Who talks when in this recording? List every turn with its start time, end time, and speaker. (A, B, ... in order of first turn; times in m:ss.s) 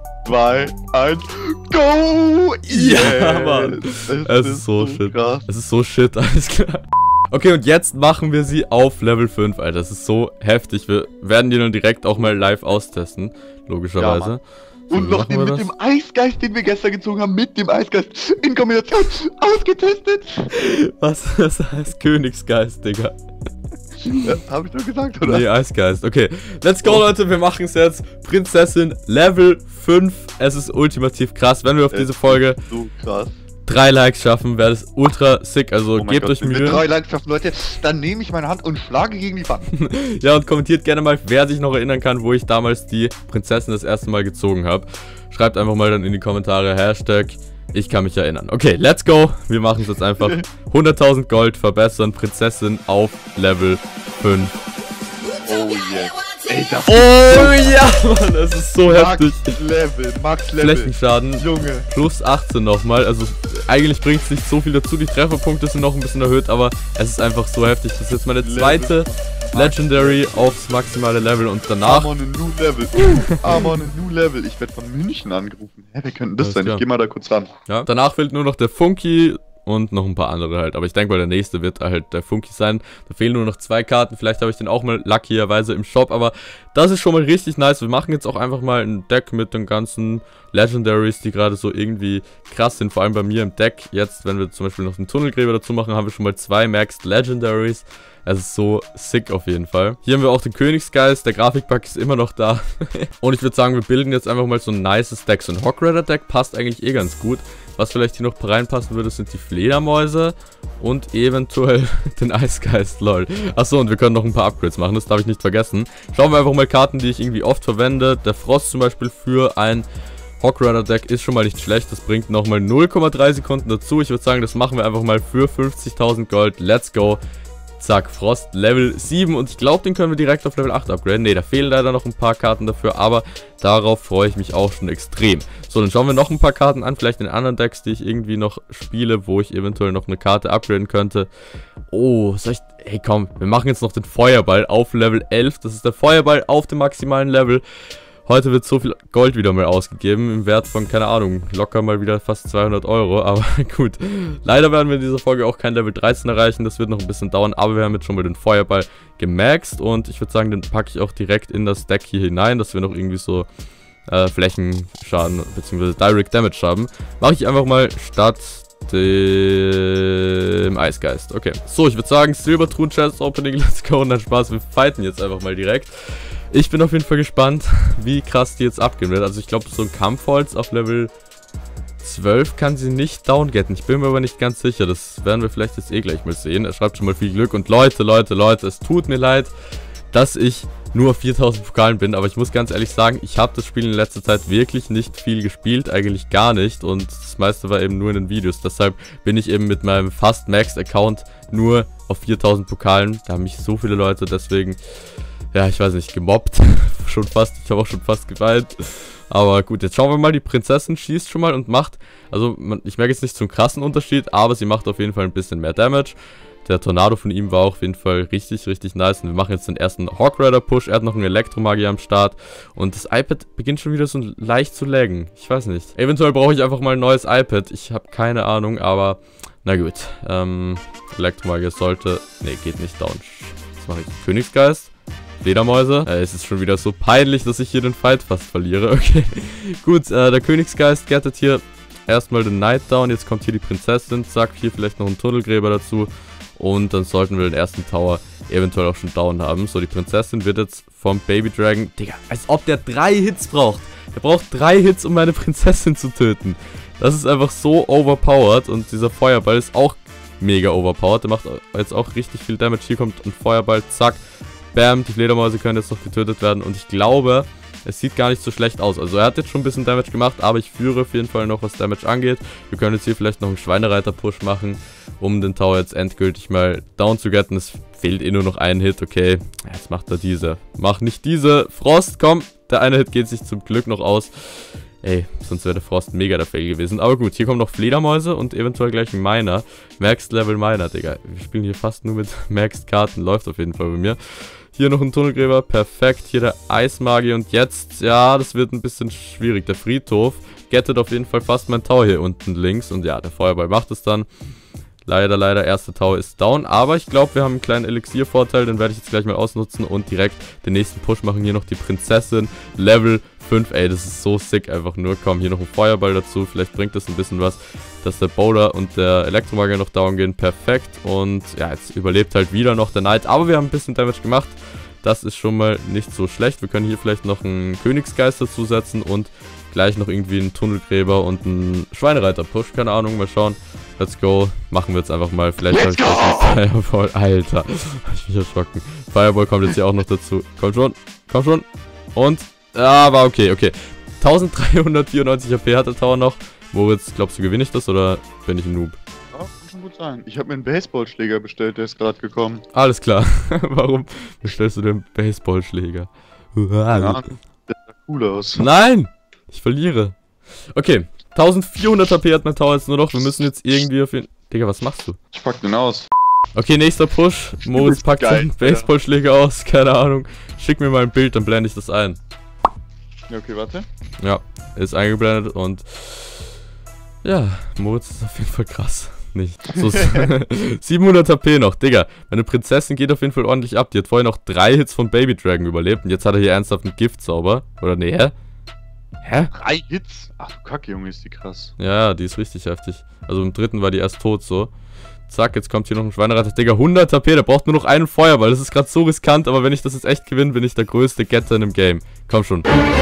0:00.2-0:05.5 A
0:02.7-0:15.7 B
0:14.0-0:14.3 A
0:14.9-0:20.5 A
0:20.5-0:23.2 B
0:24.0-0:25.4 A
0:25.2-0:32.6 B
0:31.9-0:33.4 A
0:33.7-0:36.8 B
0:36.0-0:39.7 A
0:39.7-0:54.6 B
0:55.4-0:57.8 A
0:56.9-0:59.6 B
0:58.9-1:01.9 A
1:00.6-1:12.1 B
1:08.4-1:10.5 A
1:11.8-1:17.5 A
1:16.4-1:16.8 B
1:17.7-1:59.9 B
2:00.4-2:07.2 B
2:07.8-2:21.3 B
2:21.9-2:27.6 B
2:28.3-2:43.5 B
2:44.1-3:01.1 B
3:02.0-3:09.5 B
3:10.1-3:24.8 B
3:25.5-4:24.2 B
4:24.7-5:04.3 B
5:05.1-5:49.0 B
5:35.7-5:36.6 A
5:49.3-5:52.6 A
5:52.7-5:57.3 B
5:56.9-5:58.6 A
5:58.6-6:00.2 B
6:00.7-6:05.2 B
6:05.3-6:06.1 A
6:06.6-6:12.2 B
6:07.7-6:08.9 A
6:13.3-6:13.9 A
6:14.2-6:16.4 B
6:17.2-6:28.3 B
6:19.8-6:20.3 A
6:29.2-6:29.5 B
6:29.5-6:31.7 A
6:31.8-6:34.7 B
6:35.3-6:42.7 B